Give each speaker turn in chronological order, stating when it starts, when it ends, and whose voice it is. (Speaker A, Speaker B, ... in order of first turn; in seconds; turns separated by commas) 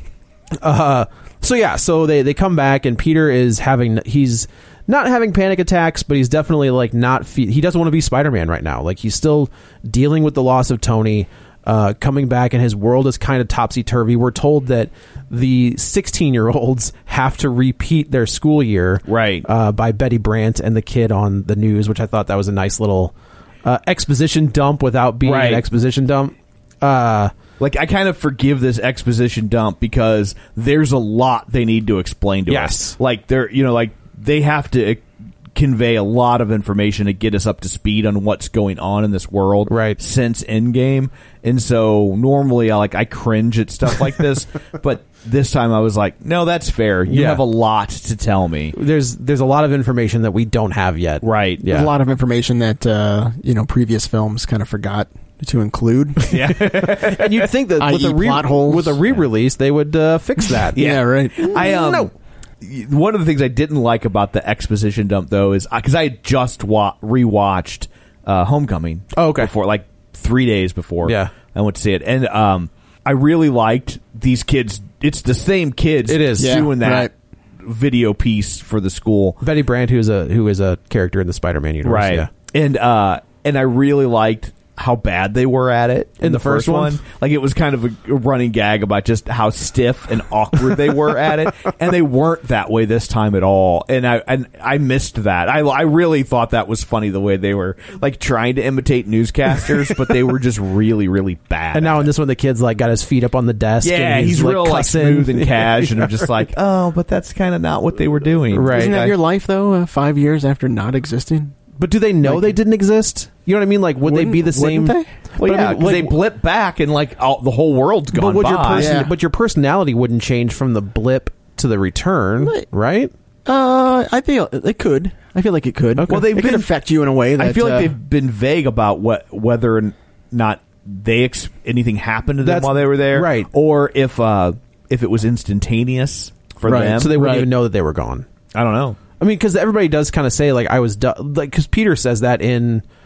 Speaker A: 0.6-23.1, Speaker B: 19.1-19.4, Speaker A: 23.6-27.3, Speaker B: 25.2-25.6, Speaker B: 27.6-48.7, Speaker A: 32.5-33.0, Speaker A: 39.7-40.0, Speaker A: 47.1-47.4, Speaker A: 48.7-51.9, Speaker B: 51.2-51.6, Speaker C: 51.6-56.3, Speaker B: 56.3-57.4, Speaker A: 56.7-60.8, Speaker C: 57.8-59.0, Speaker B: 60.7-77.1, Speaker C: 60.7-61.5, Speaker A: 61.4-62.1, Speaker A: 69.1-69.5, Speaker A: 71.0-71.3, Speaker A: 76.1-76.6, Speaker C: 76.4-77.1, Speaker B: 77.6-79.4, Speaker A: 79.4-82.3, Speaker B: 81.8-102.1, Speaker A: 86.2-87.0, Speaker A: 101.7-106.3, Speaker B: 103.8-109.1, Speaker A: 108.5-109.0, Speaker C: 108.7-111.5, Speaker A: 111.8-116.1, Speaker C: 112.2-112.5, Speaker C: 114.0-115.1, Speaker B: 115.4-118.9, Speaker A: 118.1-123.1, Speaker C: 118.7-119.1, Speaker C: 122.4-122.7, Speaker C: 123.5-127.9, Speaker A: 126.0-126.3, Speaker B: 126.1-126.7, Speaker B: 127.4-137.1, Speaker A: 132.4-133.5, Speaker C: 136.6-137.5, Speaker A: 136.9-138.2, Speaker B: 138.5-139.0, Speaker A: 139.2-142.8